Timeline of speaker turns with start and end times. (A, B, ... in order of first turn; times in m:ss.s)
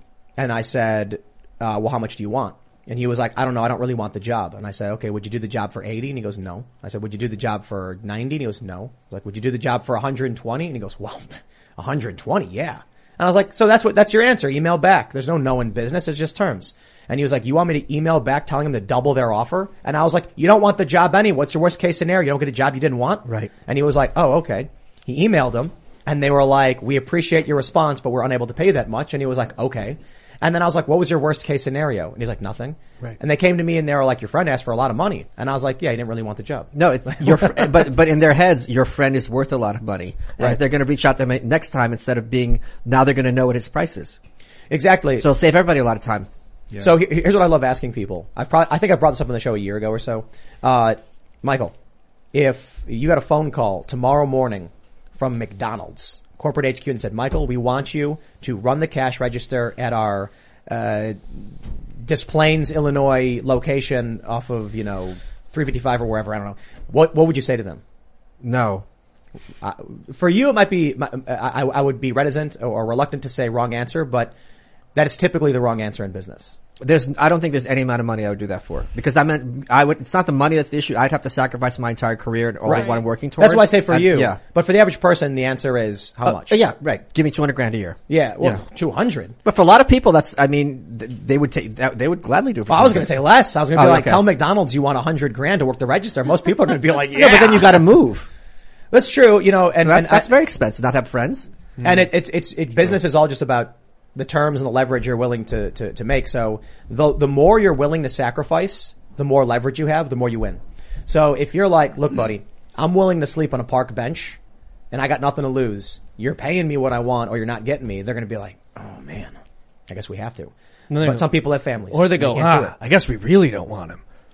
0:00.4-0:37.6 A
0:23.2-0:23.5 B
0:36.8-0:44.2 B
0:44.7-0:45.3 A
0:45.2-0:46.3 B
0:46.8-0:51.7 A
0:52.3-1:01.5 A
1:02.0-1:07.8 A
1:08.4-1:08.8 B
1:09.6-1:14.3 A
1:15.0-1:16.6 A
1:16.8-1:24.4 B
1:22.6-1:26.6 A
1:26.2-1:28.6 B
1:28.1-1:29.4 A
1:29.4-1:33.2 B
1:32.7-1:37.9 A
1:33.7-1:34.3 B
1:37.1-1:38.3 B
1:38.9-1:40.3 A
1:39.8-1:41.5 B
1:41.8-1:54.4 A
1:54.9-1:59.4 A
1:59.9-2:02.7 A
2:00.9-2:01.3 C
2:01.9-2:04.0 C